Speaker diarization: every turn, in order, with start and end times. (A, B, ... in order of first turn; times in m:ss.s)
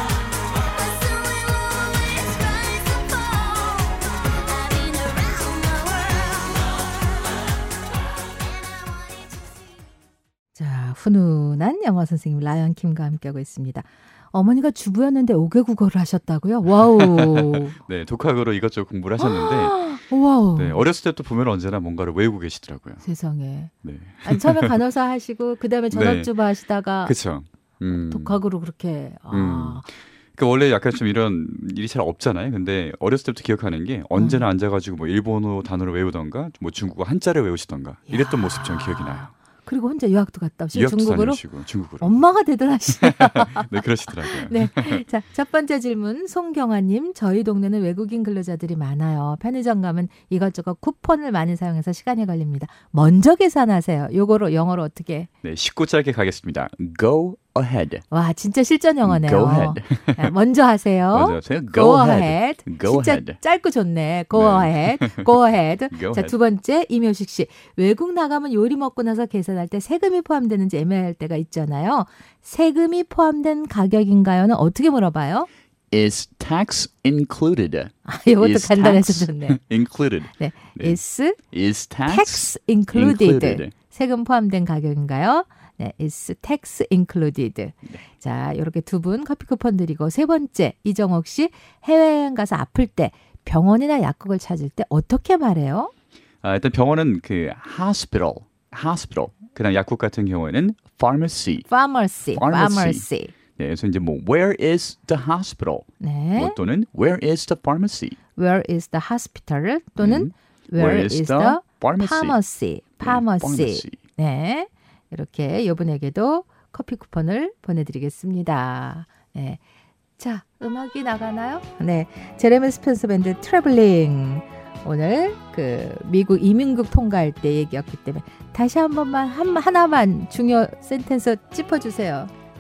0:00.8-0:06.7 A
0:08.7-0:09.4 A
0:10.6-0:17.8 B
0:17.0-0:19.8 C
0:19.2-0:20.8 B
0:20.6-0:23.0 C
0:23.0-0:23.7 B
0:23.8-0:24.8 C
0:24.2-0:27.2 B
0:25.9-0:26.3 C
0:27.0-0:28.4 C
0:27.9-0:29.9 B
0:29.3-0:39.3 C
0:34.2-0:34.4 B
0:38.1-0:41.4 B
0:40.7-0:42.2 C
0:42.0-0:55.3 B
0:43.0-0:45.0 C
0:55.4-0:56.7 C
0:56.7-0:58.0 D
0:58.1-1:15.5 B
0:59.0-0:59.9 D
1:01.1-1:03.4 D
1:04.4-1:05.3 C
1:06.0-1:06.3 D
1:15.9-1:20.3 D
1:18.0-1:19.6 B
1:20.4-1:21.4 B
1:21.5-1:23.7 D
1:22.1-1:35.9 B
1:36.4-1:37.5 C
1:37.5-1:39.4 D
1:39.4-1:40.9 C
1:40.8-1:41.7 D
1:41.7-1:43.3 B
1:42.3-1:43.0 D
1:43.6-1:44.2 C
1:43.8-1:45.9 D
1:46.0-1:46.6 B
1:46.6-1:48.2 D
1:48.4-1:59.6 B
1:50.0-1:52.4 D
1:53.0-1:54.0 D
2:00.2-2:12.3 B